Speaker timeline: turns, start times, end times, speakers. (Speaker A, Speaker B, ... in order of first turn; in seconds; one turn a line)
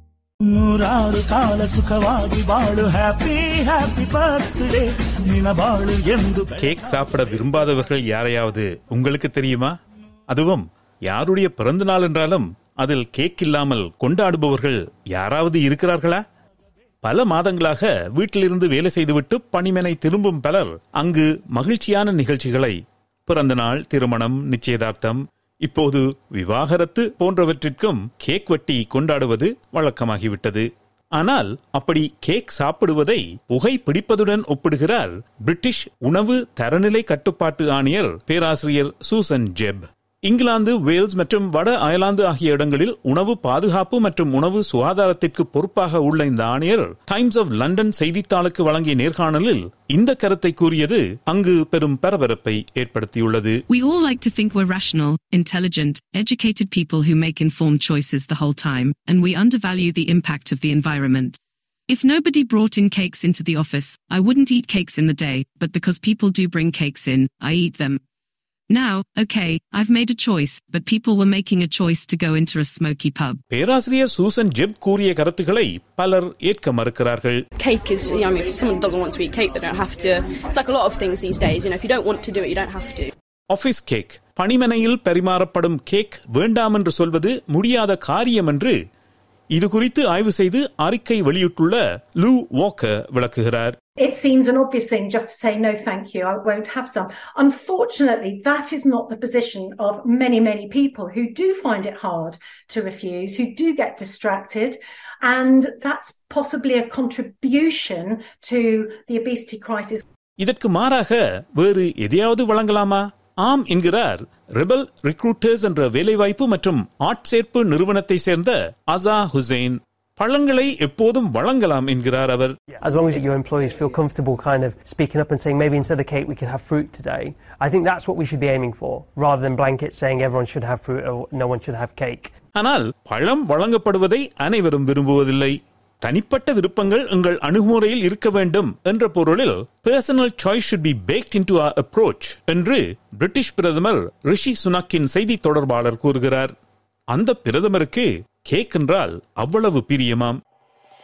Speaker A: 0.5-6.8
Speaker B: 6.6-9.7
Speaker B: 10.3-16.2
Speaker B: 17.0-53.6
Speaker C: 53.7-61.4
Speaker C: 61.9-68.0
Speaker C: 68.7-73.4
Speaker B: 73.5-77.4
Speaker D: 77.6-83.1
Speaker B: 83.5-88.8
Speaker B: 89.5-93.8
Speaker E: 94.0-110.0
Speaker B: 110.4-122.5
Speaker F: 122.9-132.3
Speaker B: 132.6-146.5
Speaker B: 147.1-150.4